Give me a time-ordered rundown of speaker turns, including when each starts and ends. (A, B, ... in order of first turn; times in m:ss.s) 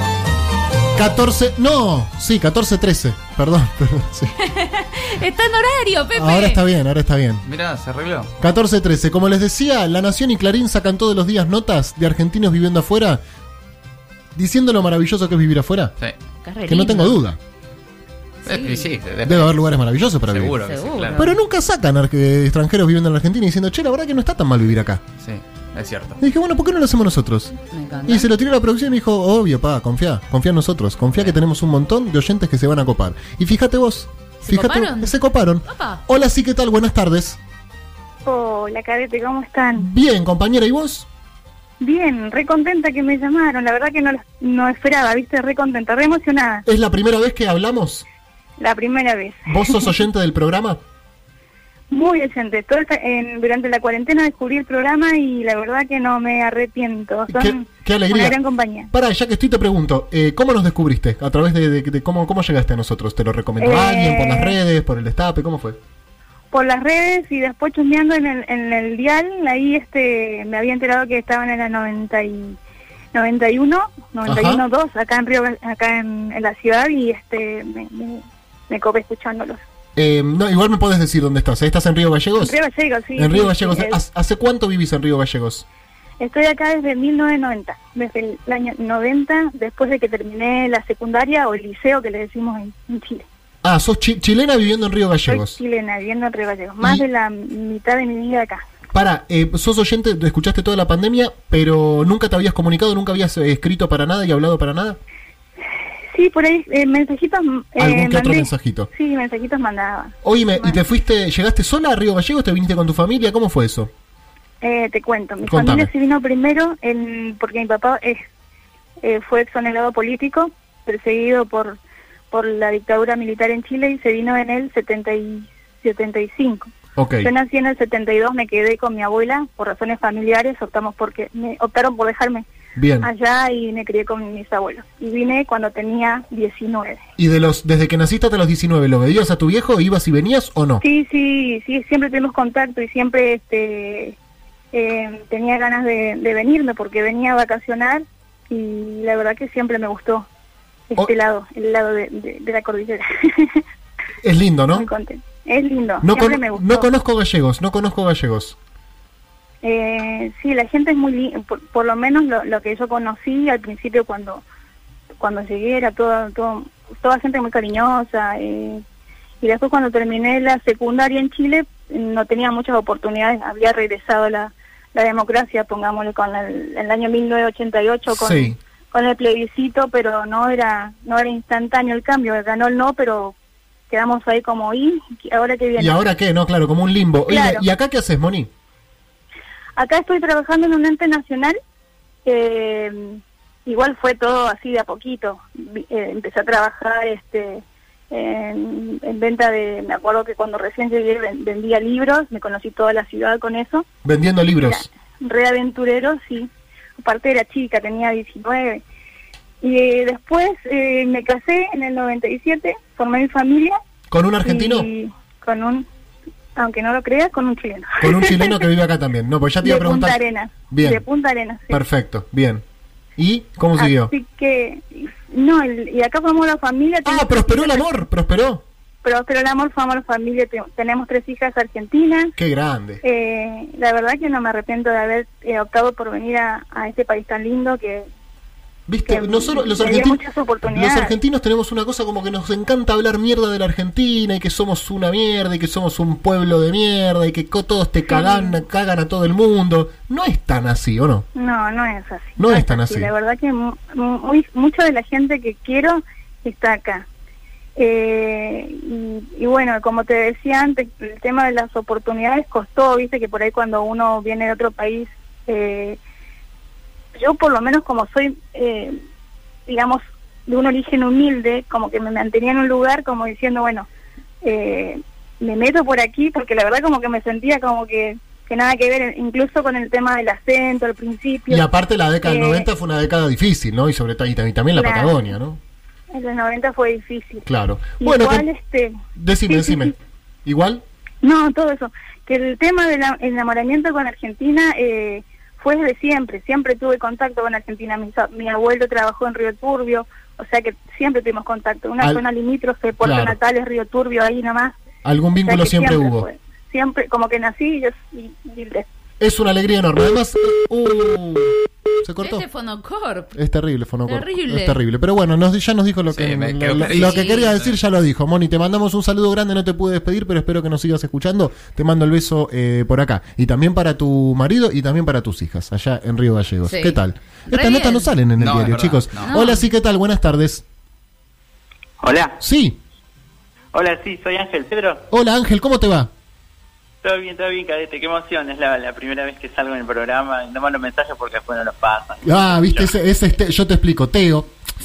0:01.0-0:04.3 A
0:04.4-0:06.6 B
0:06.1-0:07.4 A
0:07.4-0:08.3 C
0:08.4-0:13.2 A
0:14.3-0:15.9 A
0:16.4-0:17.2 B
0:16.6-0:17.4 A
0:18.4-0:19.0 B
0:18.4-0:21.2 C
0:19.2-0:25.0 A
0:20.6-0:21.4 B
0:25.2-0:26.2 C
0:26.2-0:27.5 A
0:27.7-0:28.3 B
0:28.1-0:37.4 A
0:34.4-0:35.1 B
0:35.7-0:36.0 B
0:38.2-0:39.9 D
0:39.7-0:41.0 A
0:41.8-0:46.6 D
0:46.6-0:48.0 A
0:48.6-0:49.9 D
0:49.5-0:50.8 A
0:51.9-0:58.9 D
0:57.3-0:58.4 A
0:58.9-1:05.8 A
1:03.6-1:04.6 D
1:06.5-1:12.6 D
1:13.1-1:19.6 D
1:14.2-1:14.6 A
1:20.0-1:22.6 A
1:22.4-1:24.0 D
1:23.2-1:25.6 A
1:26.2-1:33.2 D
1:33.6-1:35.6 A
1:35.3-1:38.6 D
1:38.9-1:45.0 A
1:46.1-1:50.8 D
1:47.8-1:48.9 A
1:50.2-1:53.9 A
1:54.6-1:58.2 D
1:55.4-1:55.9 A
1:59.0-2:01.8 D
2:02.3-2:06.7 D
2:07.0-2:07.3 A
2:07.2-2:12.4 D
2:12.8-2:13.1 A
2:13.0-2:17.0 D
2:17.2-2:20.8 A
2:20.8-2:24.2 D
2:24.7-2:30.2 D
2:30.9-2:33.6 D
2:34.2-2:34.9 A
2:34.7-2:36.9 D
2:36.0-2:38.6 A
2:39.6-2:44.4 D
2:45.2-2:48.8 D
2:49.4-3:03.3 D
2:58.1-2:58.6 A
3:03.9-3:06.0 D
3:05.8-3:08.5 A
3:07.3-3:07.6 D
3:09.8-3:11.6 D
3:12.2-3:23.8 D
3:24.0-3:24.8 A
3:24.6-3:28.8 D
3:29.6-3:33.8 D
3:34.1-3:34.9 A
3:34.4-3:35.8 D
3:36.6-3:38.6 D
3:38.0-3:41.0 A
3:39.6-3:41.8 D
3:41.7-3:42.6 A
3:43.2-3:44.1 A
3:43.8-3:47.8 D
3:47.0-3:48.6 A
3:49.0-3:52.3 D
3:52.4-3:53.0 A
3:53.0-3:58.1 D
3:58.9-4:11.2 A
3:59.1-4:01.2 D
4:08.1-4:08.6 D
4:11.3-4:17.1 D
4:12.4-4:13.1 A
4:17.8-4:26.0 D
4:27.2-4:29.0 D
4:29.7-4:33.9 D
4:34.4-4:41.6 D
4:41.5-4:45.6 A
4:42.2-4:42.7 D
4:44.7-4:45.3 D
4:46.1-4:47.4 D
4:47.4-4:48.4 A
4:48.0-4:49.0 D
4:49.2-4:50.8 A
4:49.5-4:49.9 D
4:51.2-5:04.7 D
5:03.0-5:03.4 A
5:05.0-5:06.3 A
5:05.4-5:08.8 D
5:09.2-5:12.4 A
5:12.2-5:13.4 B
5:13.3-5:30.6 A
5:14.0-5:14.8 B
5:16.1-5:17.7 C
5:16.9-5:17.5 B
5:26.6-5:28.1 B
5:28.4-5:29.3 C
5:29.2-5:29.6 B
5:32.0-5:32.4 E
5:32.4-5:32.8 A
5:33.7-5:35.0 E
5:35.1-5:36.1 A
5:37.0-5:42.9 E
5:42.2-5:44.5 A